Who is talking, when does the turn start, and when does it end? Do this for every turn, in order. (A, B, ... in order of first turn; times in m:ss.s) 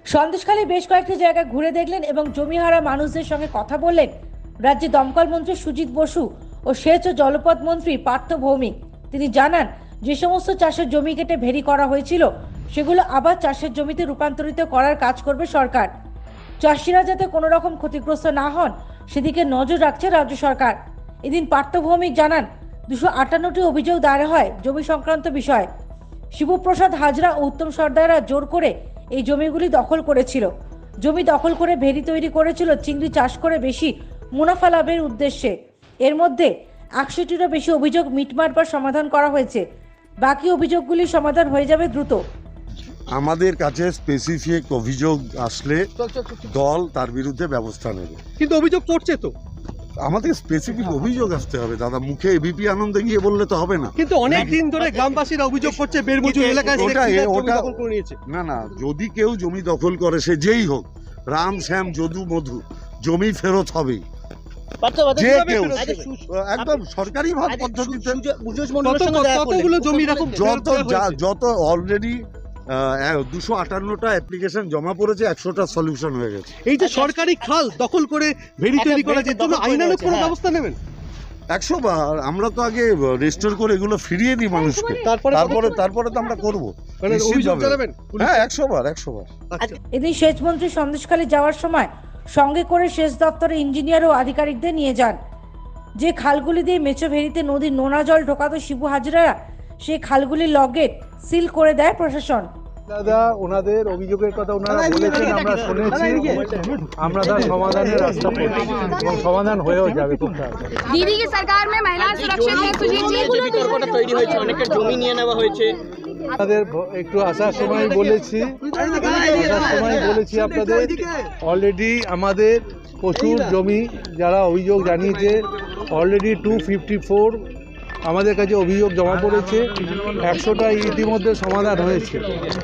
0:00.1-0:04.1 A
0:04.6-0:15.9 A
0:16.6-0:20.8 A
0:21.3-0:25.7 A
0:26.4-0:30.5 A
0:31.0-0:35.5 A
0:36.0-0:39.6 A
0:40.2-0:42.2 A
0:43.1-0:45.9 B
0:46.1-0:46.4 C
0:46.4-0:48.2 B
0:48.4-0:49.3 C
0:50.0-0:54.6 B
0:54.0-0:58.2 C
0:54.3-0:55.1 D
0:55.7-0:57.1 D
0:56.6-0:57.7 B
0:58.3-1:04.0 B
1:04.8-1:06.8 D
1:05.1-1:08.2 B
1:05.1-1:06.2 C
1:07.4-1:10.4 D
1:08.8-1:11.2 C
1:10.3-1:16.6 B
1:16.6-1:20.8 C
1:16.8-1:17.5 D
1:18.7-1:20.4 D
1:21.5-1:29.3 B
1:24.6-1:25.0 E
1:25.0-1:25.8 C
1:27.0-1:28.5 C
1:29.5-1:29.8 C
1:29.9-1:35.2 A
1:36.0-1:42.5 A
1:42.9-1:46.4 F
1:44.9-1:46.4 C
1:47.0-1:50.7 F
1:49.8-1:50.2 C
1:50.8-1:54.6 E
1:52.0-1:55.8 D
1:56.4-2:07.4 F
1:58.6-2:01.3 C
1:58.7-2:00.1 D
2:03.2-2:03.5 D
2:08.0-2:09.6 F
2:10.2-2:12.2 F